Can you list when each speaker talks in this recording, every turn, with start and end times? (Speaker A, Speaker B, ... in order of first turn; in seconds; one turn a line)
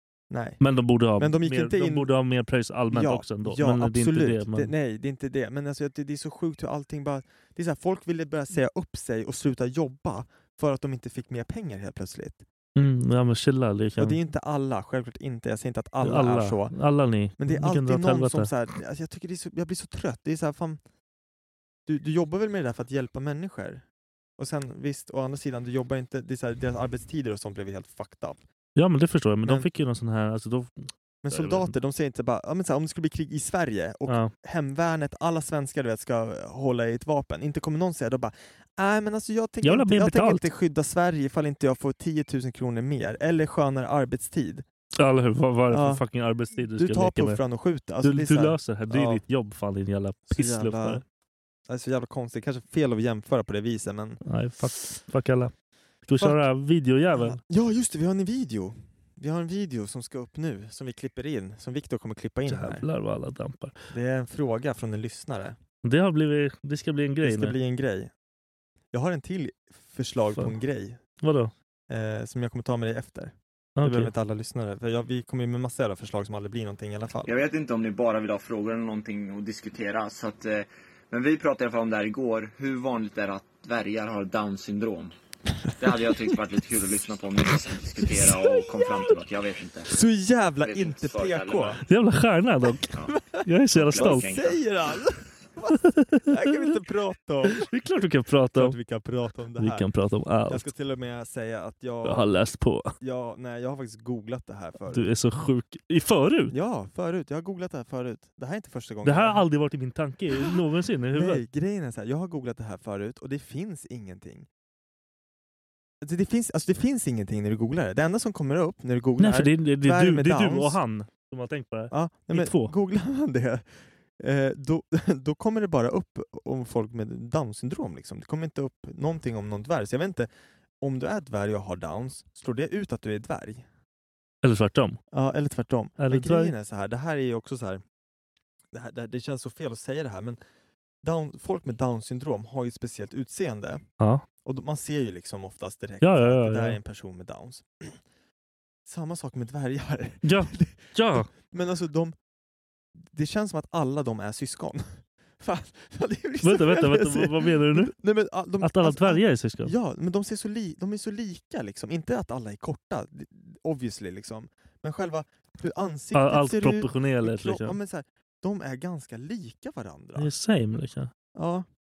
Speaker A: 0.3-0.6
Speaker B: 0.6-4.7
Speaker A: 1.2-2.1
Speaker A: 2.9-12.4
Speaker B: 12.8-14.2
Speaker A: 14.0-16.8
Speaker B: 16.0-18.5
Speaker A: 17.4-20.8
Speaker A: 21.9-23.8
Speaker A: 24.4-28.4
Speaker B: 28.8-31.7
Speaker A: 31.2-44.6
Speaker B: 34.1-34.3
Speaker B: 39.6-40.5
Speaker B: 45.0-47.4
Speaker A: 45.7-46.0
Speaker A: 46.6-49.2
Speaker B: 48.0-51.0
Speaker A: 50.3-51.0
Speaker A: 51.7-54.2
Speaker B: 54.3-55.5
Speaker B: 56.0-57.4
Speaker A: 57.1-62.9
Speaker B: 62.5-63.7
Speaker A: 63.9-65.6
Speaker B: 65.8-67.5
Speaker A: 67.2-68.1
Speaker A: 68.9-71.0
Speaker B: 71.2-71.5
Speaker A: 71.9-77.4
Speaker B: 73.8-74.1
Speaker C: 77.3-85.1
Speaker C: 85.8-90.0
Speaker A: 88.0-88.8
Speaker A: 89.9-91.8
Speaker C: 90.5-91.8
Speaker B: 91.9-94.3
Speaker A: 93.0-97.7
Speaker C: 93.8-94.6
Speaker B: 95.7-96.6
Speaker B: 97.5-98.8
Speaker A: 98.5-99.9
Speaker B: 99.6-100.7
Speaker A: 100.5-102.3
Speaker B: 102.0-102.9
Speaker A: 103.0-105.1
Speaker B: 104.9-106.5
Speaker A: 106.5-109.4
Speaker B: 109.0-111.4
Speaker A: 111.1-114.5
Speaker A: 116.0-120.8
Speaker B: 119.2-122.7
Speaker A: 121.9-123.7
Speaker A: 124.2-130.3
Speaker A: 130.8-133.6
Speaker B: 134.4-135.0
Speaker A: 135.1-137.8
Speaker B: 136.0-136.5
Speaker A: 138.7-140.4
Speaker A: 141.0-143.8
Speaker A: 144.4-148.0
Speaker B: 146.0-146.8
Speaker A: 148.9-152.1
Speaker B: 150.2-151.3
Speaker A: 153.0-170.3
Speaker B: 156.4-157.9
Speaker B: 158.6-159.7
Speaker B: 166.1-167.8
Speaker B: 170.2-171.1
Speaker A: 171.3-171.7